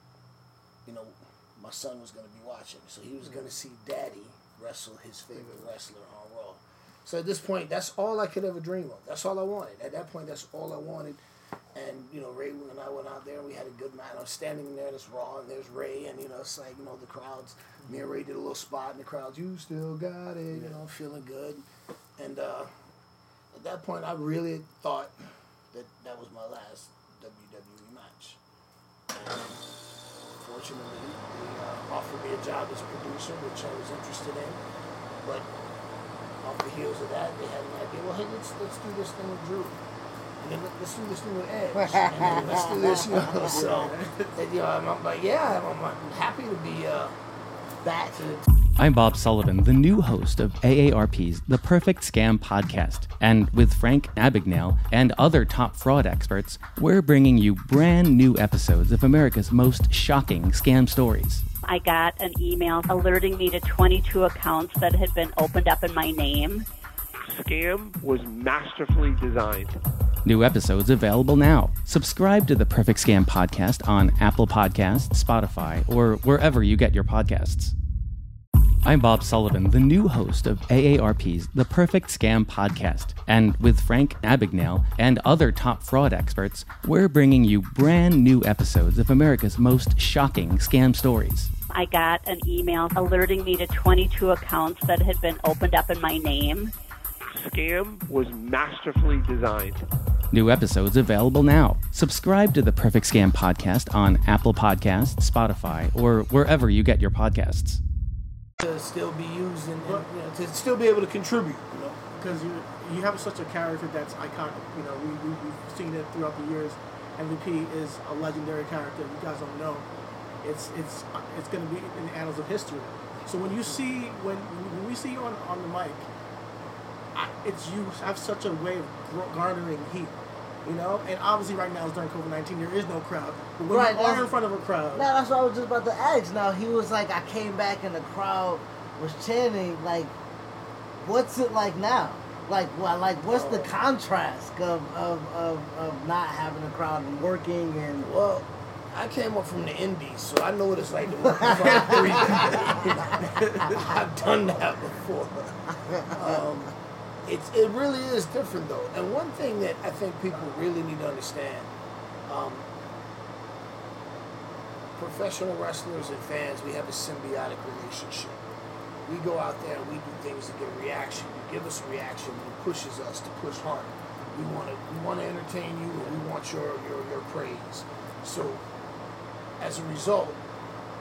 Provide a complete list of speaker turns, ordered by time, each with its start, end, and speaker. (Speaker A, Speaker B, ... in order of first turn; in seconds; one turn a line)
Speaker A: 0.8-11.2
Speaker B: 5.3-5.7
Speaker A: 11.7-21.6
Speaker A: 22.2-22.7
Speaker A: 23.5-25.1
Speaker A: 25.7-28.4
Speaker A: 29.1-29.6
Speaker A: 30.4-34.6
Speaker A: 35.2-35.5
Speaker A: 36.4-39.8
Speaker A: 40.4-47.2
Speaker C: 41.8-43.2
Speaker B: 43.4-44.3
Speaker C: 47.8-48.2
Speaker A: 48.1-48.4
Speaker D: 48.8-61.4
Speaker E: 61.6-66.6
Speaker F: 67.2-69.8
Speaker D: 70.2-77.7
Speaker D: 78.8-91.5
Speaker E: 91.7-96.7
Speaker F: 97.3-99.8
Speaker D: 100.3-107.8
Speaker A: 108.6-112.1
Speaker B: 109.8-110.1
Speaker B: 112.1-119.9
Speaker B: 120.4-126.1
Speaker B: 127.1-135.1
Speaker C: 133.7-134.3
Speaker C: 134.9-140.1
Speaker C: 141.0-148.1
Speaker A: 143.3-143.7
Speaker A: 148.0-156.7
Speaker C: 151.4-152.8
Speaker C: 155.8-156.5
Speaker A: 157.2-161.7
Speaker A: 162.3-162.7
Speaker A: 164.9-168.4
Speaker A: 169.0-178.7
Speaker A: 179.6-180.4